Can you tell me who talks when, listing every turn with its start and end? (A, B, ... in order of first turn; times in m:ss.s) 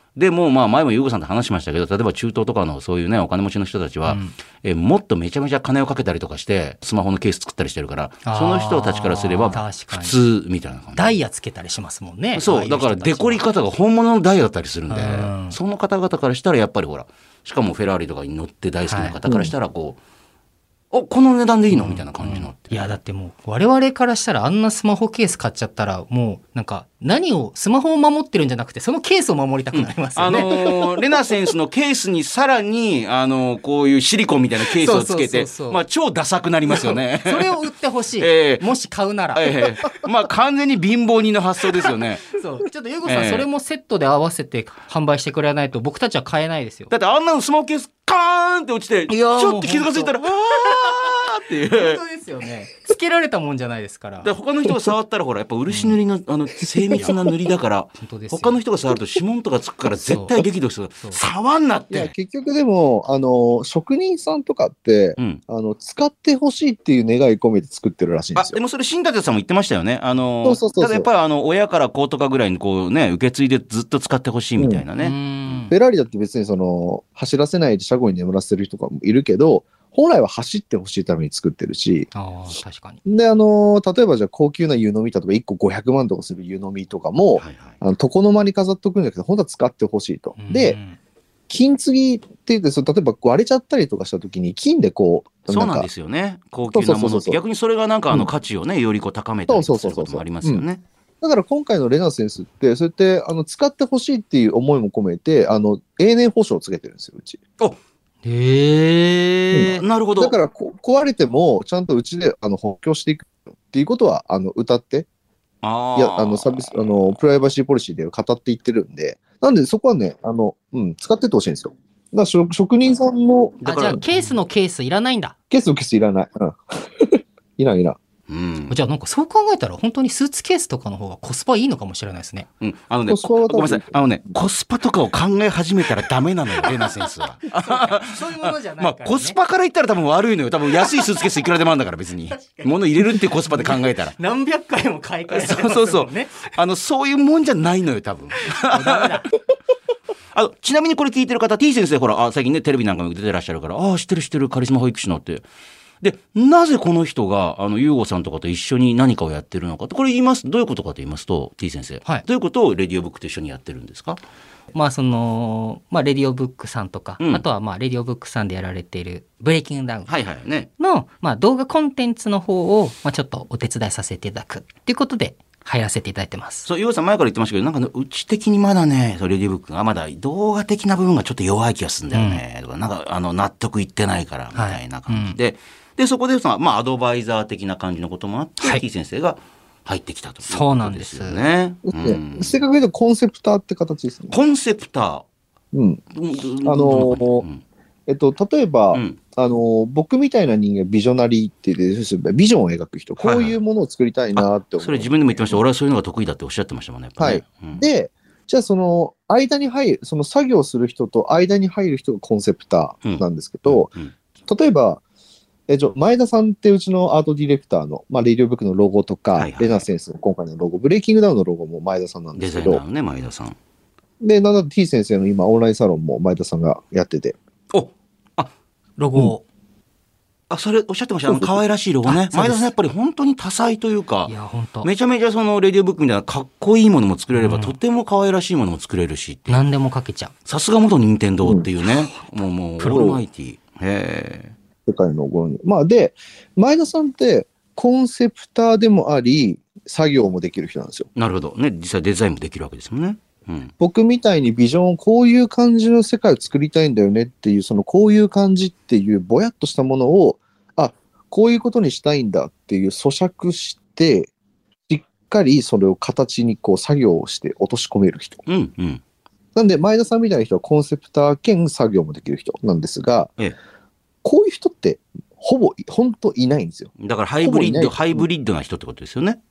0:00.2-0:11.2 A
0:04.0-0:04.4 B
0:08.2-0:10.2 B
0:11.0-0:13.4 B
0:12.4-0:20.0 A
0:14.9-0:15.6 B
0:18.9-0:19.1 B
0:19.2-0:19.5 C
0:20.9-0:23.0 A
0:21.7-0:30.8 B
0:29.7-0:37.6 A
0:34.8-0:35.8 B
0:36.7-0:40.0 B
0:38.2-0:38.7 A
0:39.4-0:42.3 A
0:41.8-0:46.9 B
0:43.0-0:43.5 A
0:46.9-0:52.0 A
0:49.1-0:54.3 B
0:54.2-1:02.1 A
0:55.7-0:56.0 B
0:58.0-0:58.6 B
1:00.0-1:00.4 B
1:01.9-1:08.6 C
1:08.4-1:15.6 A
1:10.4-1:11.1 C
1:14.6-1:14.8 C
1:15.0-1:15.8 B
1:15.7-1:22.1 C
1:22.1-1:23.0 B
1:23.0-1:30.8 C
1:27.4-1:27.8 A
1:30.4-1:31.0 B
1:31.5-1:35.9 C
1:35.5-1:40.8 A
1:36.7-1:37.4 C
1:39.5-1:40.6 C
1:41.2-1:47.4 C
1:48.2-1:49.8 B
1:49.5-1:55.1 C
1:49.6-1:50.4 A
1:55.6-1:56.9 A
1:56.0-2:04.0 C
2:03.6-2:04.3 A
2:03.6-2:05.3 B
2:05.5-2:08.0 C
2:08.3-2:08.8 A
2:08.7-2:12.5 B
2:12.6-2:24.2 A
2:13.1-2:14.2 C
2:17.5-2:19.4 B
2:20.8-2:21.3 B
2:22.3-2:26.5 B
2:25.3-2:29.2 A
2:28.6-2:29.3 B
2:30.3-2:35.4 A
2:36.0-2:44.2 A
2:44.7-2:50.1 B
2:50.1-2:50.7 A
2:50.8-2:56.7 B
2:56.7-3:12.6 A
3:02.1-3:02.4 B
3:04.5-3:05.4 B
3:10.5-3:11.4 B
3:11.9-3:14.4 C
3:14.3-3:15.2 A
3:15.7-3:16.0 C
3:16.1-3:17.6 A
3:16.6-3:17.5 C
3:18.1-3:25.6 C
3:18.9-3:19.2 A
3:23.2-3:23.6 A
3:24.4-3:27.8 A
3:27.2-3:33.9 C
3:33.0-3:34.1 A
3:34.5-3:35.0 C
3:35.7-3:42.8 C
3:39.3-3:39.8 A
3:42.4-3:43.6 A
3:44.2-3:47.4 C
3:47.7-3:48.5 A
3:49.0-3:49.4 B
3:50.5-3:54.3 A
3:51.3-3:51.5 C
3:52.0-3:52.7 B
3:54.3-3:54.9 B
3:54.8-3:59.6 A
3:57.3-3:57.8 B
3:59.5-4:00.3 B
4:00.5-4:04.5 A
4:01.4-4:01.7 C
4:02.8-4:03.1 B
4:02.8-4:03.2 C
4:04.8-4:11.1 C
4:11.2-4:13.7 A
4:13.8-4:24.3 C
4:24.9-4:28.4 C
4:28.5-4:29.0 A
4:29.5-4:33.3 C
4:34.2-4:38.2 C
4:37.0-4:39.4 A